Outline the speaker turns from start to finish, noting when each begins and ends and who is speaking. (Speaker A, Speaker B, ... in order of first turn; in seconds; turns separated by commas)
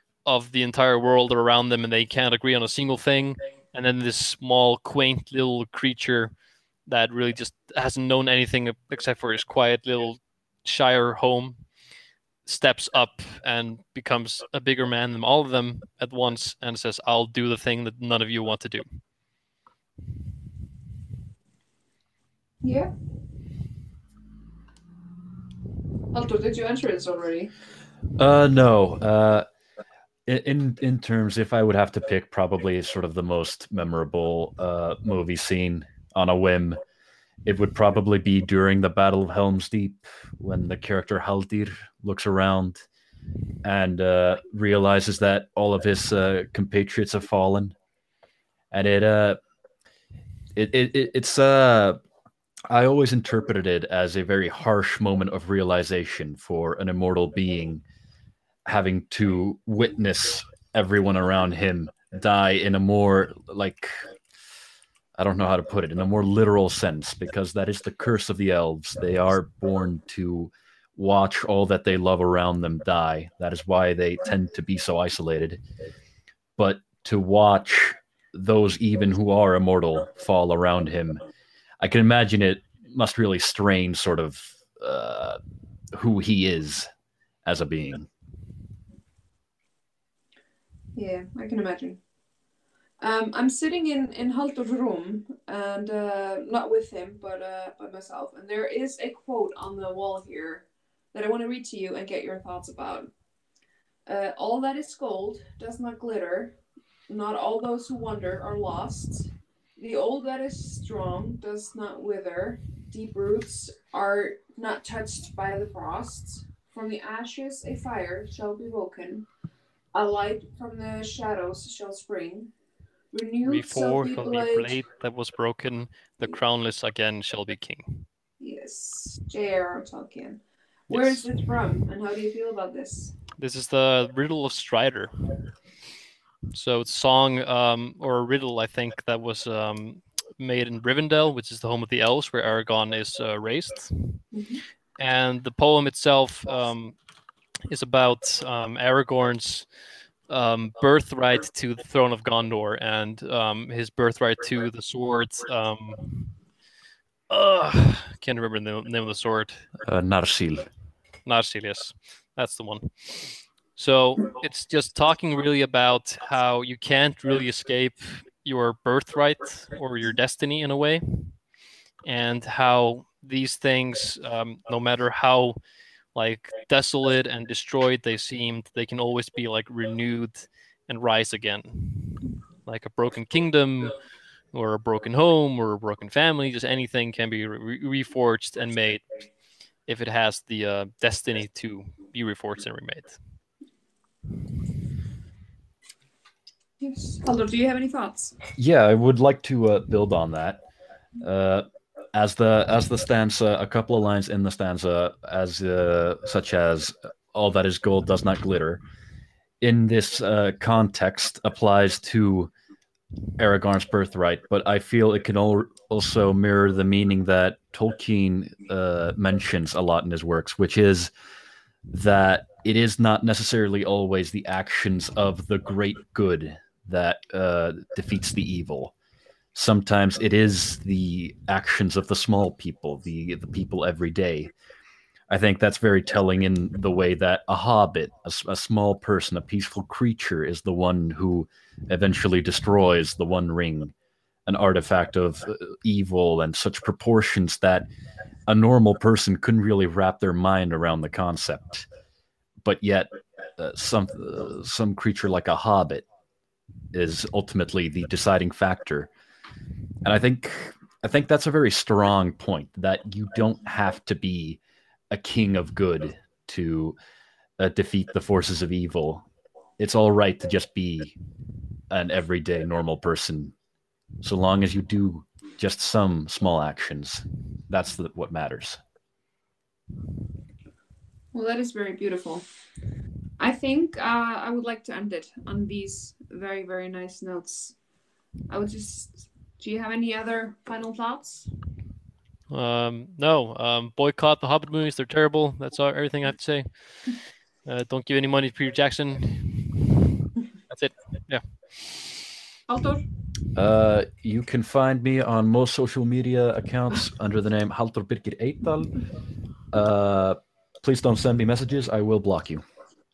Speaker A: 0.2-6.3, Speaker A: 6.8-11.6, Speaker A: 12.4-18.9, Speaker B: 22.6-22.9, Speaker B: 26.1-27.5, Speaker C: 28.2-29.4, Speaker C: 30.2-36.8, Speaker C: 37.4-42.8, Speaker C: 43.6-47.7, Speaker C: 48.7-49.4, Speaker C: 50.5-52.0, Speaker C: 52.7-57.8, Speaker C: 58.6-64.1, Speaker C: 65.2-75.6, Speaker C: 76.6-81.2, Speaker C: 81.8-85.4, Speaker C: 85.9-86.9, Speaker C: 87.4-88.1, Speaker B: 90.9-92.0, Speaker B: 93.0-103.1, Speaker B: 104.0-106.5, Speaker B: 107.1-119.2, Speaker B: 119.9-122.5, Speaker B: 123.1-124.8, Speaker A: 123.4-128.1, Speaker B: 128.4-133.1, Speaker A: 130.9-131.2, Speaker A: 133.4-135.3, Speaker A: 136.5-144.3, Speaker B: 144.3-144.6, Speaker A: 145.0-146.9, Speaker A: 147.7-149.7, Speaker A: 150.3-156.4, Speaker A: 157.3-159.7, Speaker C: 159.8-160.7, Speaker A: 161.2-171.4, Speaker A: 172.0-175.6, Speaker A: 176.1-183.9, Speaker A: 184.5-189.1, Speaker A: 189.9-193.2, Speaker B: 196.8-198.3, Speaker C: 198.6-200.6, Speaker C: 201.2-208.8, Speaker C: 209.6-212.5, Speaker C: 213.4-221.1, Speaker C: 221.9-228.9, Speaker C: 229.5-234.5, Speaker C: 235.3-243.9, Speaker C: 244.4-247.9, Speaker C: 248.5-251.9, Speaker C: 252.6-256.1, Speaker C: 256.9-259.1, Speaker C: 260.0-266.9, Speaker C: 267.6-269.2, Speaker C: 269.8-271.1, Speaker C: 271.9-273.5, Speaker C: 274.2-278.8, Speaker B: 281.3-282.4, Speaker B: 283.4-287.8, Speaker B: 288.5-291.5, Speaker A: 292.5-299.8, Speaker A: 300.7-302.2, Speaker B: 302.7-303.0, Speaker C: 303.5-308.9, Speaker C: 309.7-312.6